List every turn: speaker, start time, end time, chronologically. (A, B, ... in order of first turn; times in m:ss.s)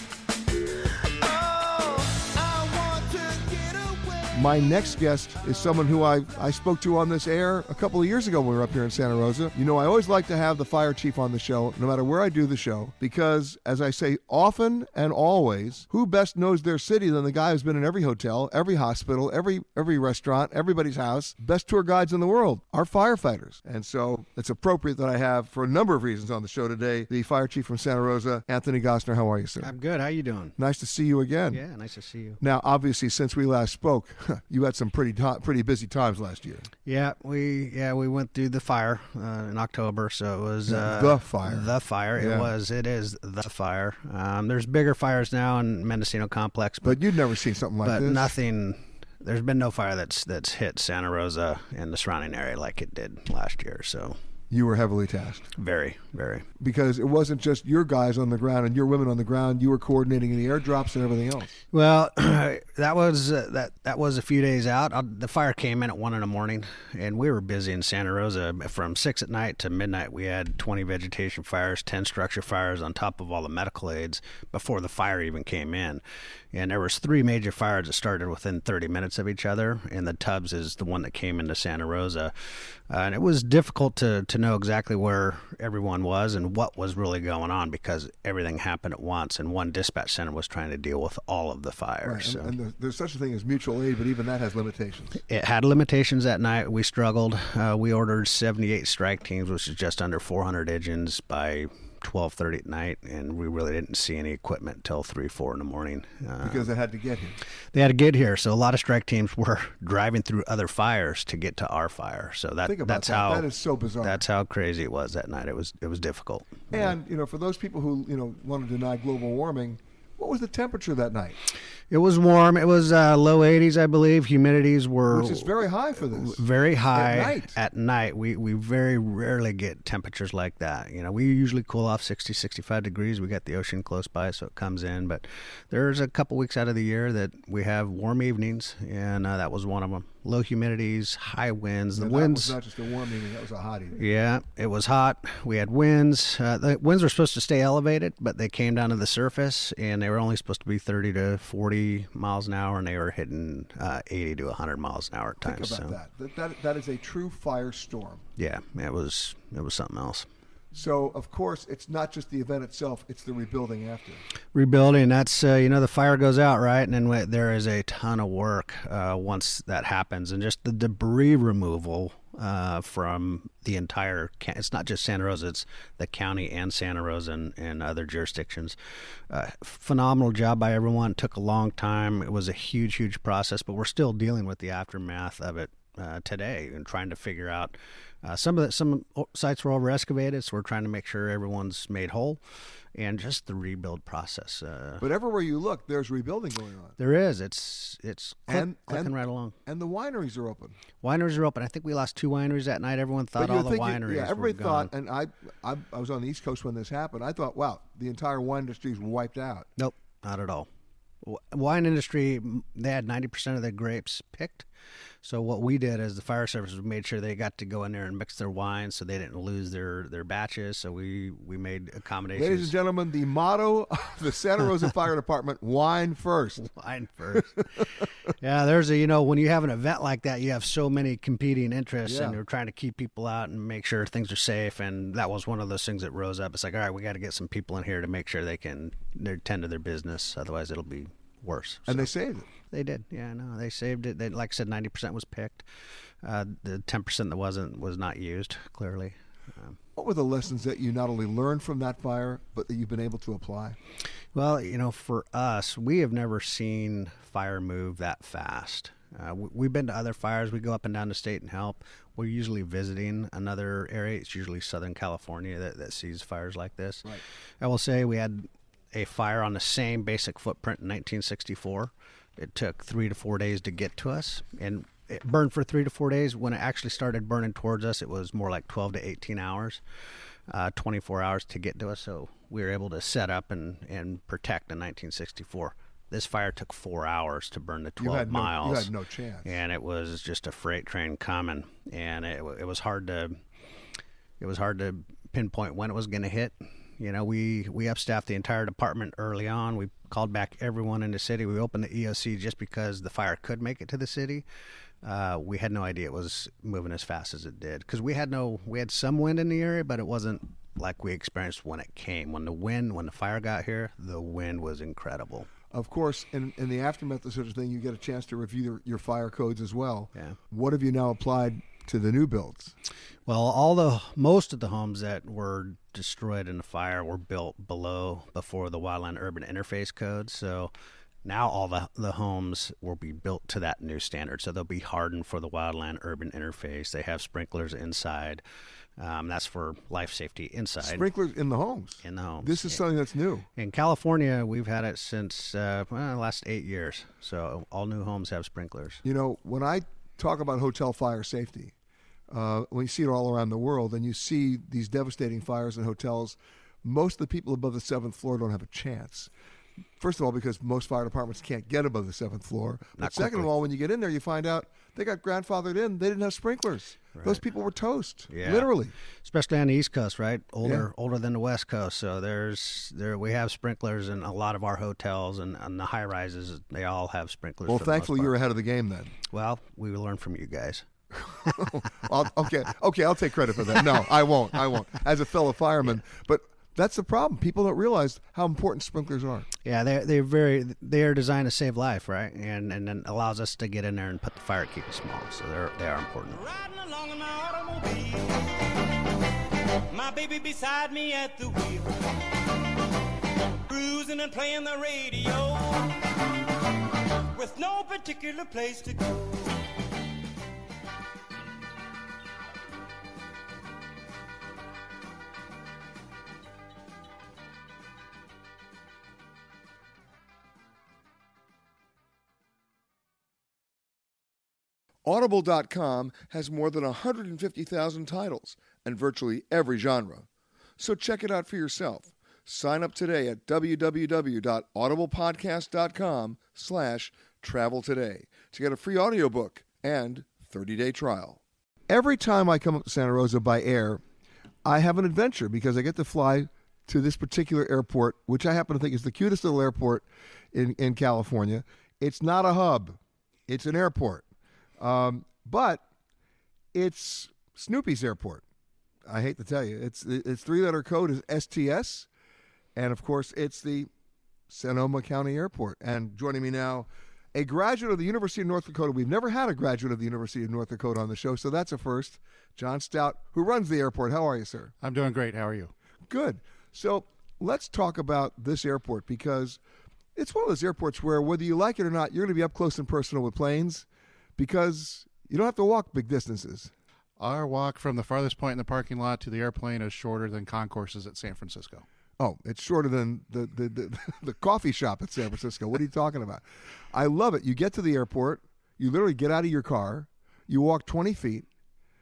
0:01.2-0:04.4 A
0:04.3-0:29.7 B
0:29.6-0:30.5 C
0:30.6-0:31.6 B
0:31.5-0:32.4 C
0:32.4-0:36.7 B
0:36.8-0:47.0 C
0:40.7-0:42.5 B
0:46.8-0:48.3 B
0:47.8-0:54.2 C
0:54.5-0:55.5 B
0:55.6-0:56.4 C
0:56.6-1:01.5 B
1:01.7-1:32.5 C
1:32.0-1:35.1 B
1:35.2-1:46.7 C
1:46.4-1:47.4 B
1:47.7-1:53.5 C
1:52.6-1:54.2 B
1:54.0-1:56.9 C
1:56.7-2:01.4 B
2:01.9-2:05.5 C
2:05.1-2:07.6 B
2:06.1-2:22.6 C
2:21.9-2:24.0 B
2:24.0-2:36.0 C
2:35.4-2:38.2 B
2:38.4-2:40.3 C
2:40.7-2:44.2 B
2:44.5-2:58.8 C
2:59.3-3:15.0 C
3:15.0-3:16.9 B
3:17.0-3:19.5 C
3:18.5-3:20.8 B
3:21.0-3:24.9 C
3:23.4-3:29.7 B
3:29.8-3:30.7 C
3:31.2-3:34.7 C
3:35.2-3:42.7 C
3:42.4-3:46.7 B
3:46.6-4:02.1 C
3:47.3-3:47.8 B
3:52.0-3:52.4 B
4:01.9-4:02.5 B
4:02.6-4:05.7 C
4:06.2-4:09.8 C
4:10.0-4:13.8 B
4:14.3-4:39.8 C
4:40.5-4:48.9 C
4:48.0-4:49.6 B
4:49.4-4:53.4 C
4:54.4-5:04.4 C
5:05.0-5:15.5 C
5:15.7-5:22.7 B
5:23.3-5:30.7 C
5:31.2-5:38.4 C
5:39.0-5:41.1 C
5:40.8-5:43.4 B
5:42.0-5:42.8 C
5:43.6-5:49.0 C
5:49.0-5:51.7 B
5:52.3-5:59.3 B
6:00.0-6:08.9 B
6:03.0-6:03.5 C
6:07.1-6:07.4 C
6:08.3-6:18.3 C
6:10.6-6:10.9 B
6:17.6-6:19.1 B
6:19.3-6:20.9 C
6:21.3-6:29.5 B
6:29.6-6:36.4 C
6:36.3-6:38.5 A
6:39.9-6:42.0 A
6:43.7-6:46.0 A
6:47.3-6:49.4 A
7:05.0-7:24.0 B
7:24.6-7:34.2 B
7:34.8-7:35.8 B
7:36.7-7:38.4 B
7:39.0-7:42.1 B
7:42.7-7:43.9 B
7:44.5-7:54.7 B
7:54.8-7:55.7 D
7:56.1-7:59.6 B
8:00.1-8:03.8 B
8:04.4-8:06.7 B
8:07.2-8:11.8 D
8:12.2-8:21.5 B